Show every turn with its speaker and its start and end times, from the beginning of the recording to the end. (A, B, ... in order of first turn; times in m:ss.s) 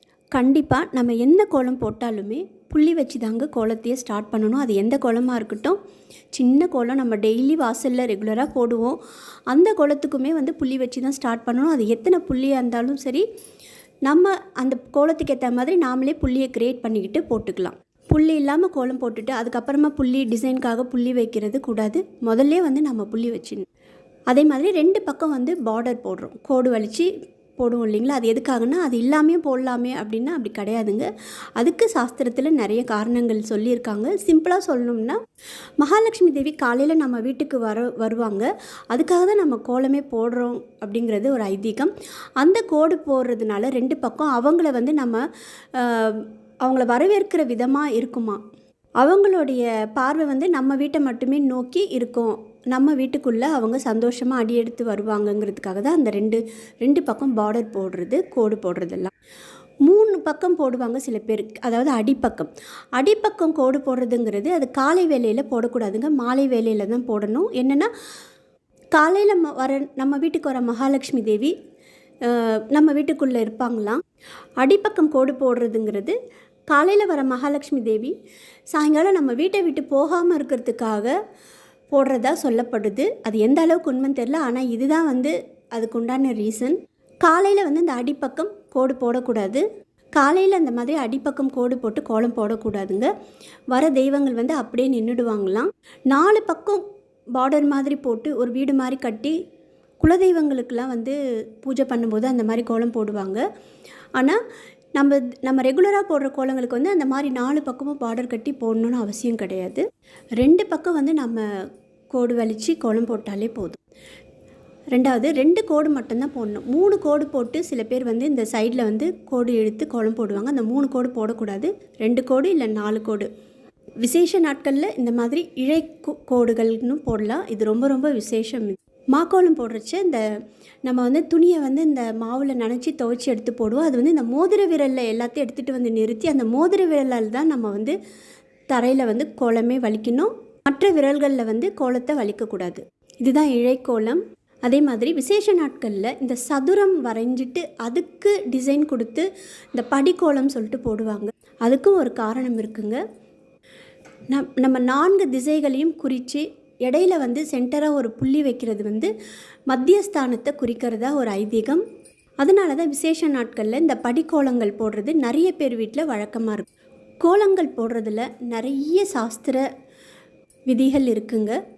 0:00.3-0:05.8 A
0:06.3-0:09.0 A
0:09.5-0:13.2 A
0:14.1-0:23.7 A
0:24.3-0:35.2 A
0:35.8-0:45.2 A
0:45.7-0:48.4 A
0:49.0-0:59.1 A
0:59.8-1:07.9 A
1:09.0-1:11.5 A
1:12.2-1:14.0 A
1:14.6-1:16.2 A
1:16.7-1:18.2 A
1:18.7-1:21.1 A
1:21.9-1:29.6 A
1:30.2-1:33.1 A
1:33.7-1:36.8 A
1:37.4-1:39.4 A
1:40.0-1:43.4 A
1:45.0-1:49.8 A
1:50.4-1:51.5 A
1:52.1-1:53.8 A
1:54.9-2:03.3 A
2:04.0-2:10.2 A
2:10.9-2:18.0 A
2:18.7-2:33.0 A
2:34.3-2:39.1 A
2:39.7-2:41.8 A
2:42.4-2:46.7 A
2:47.2-2:49.6 A
2:50.7-2:51.6 A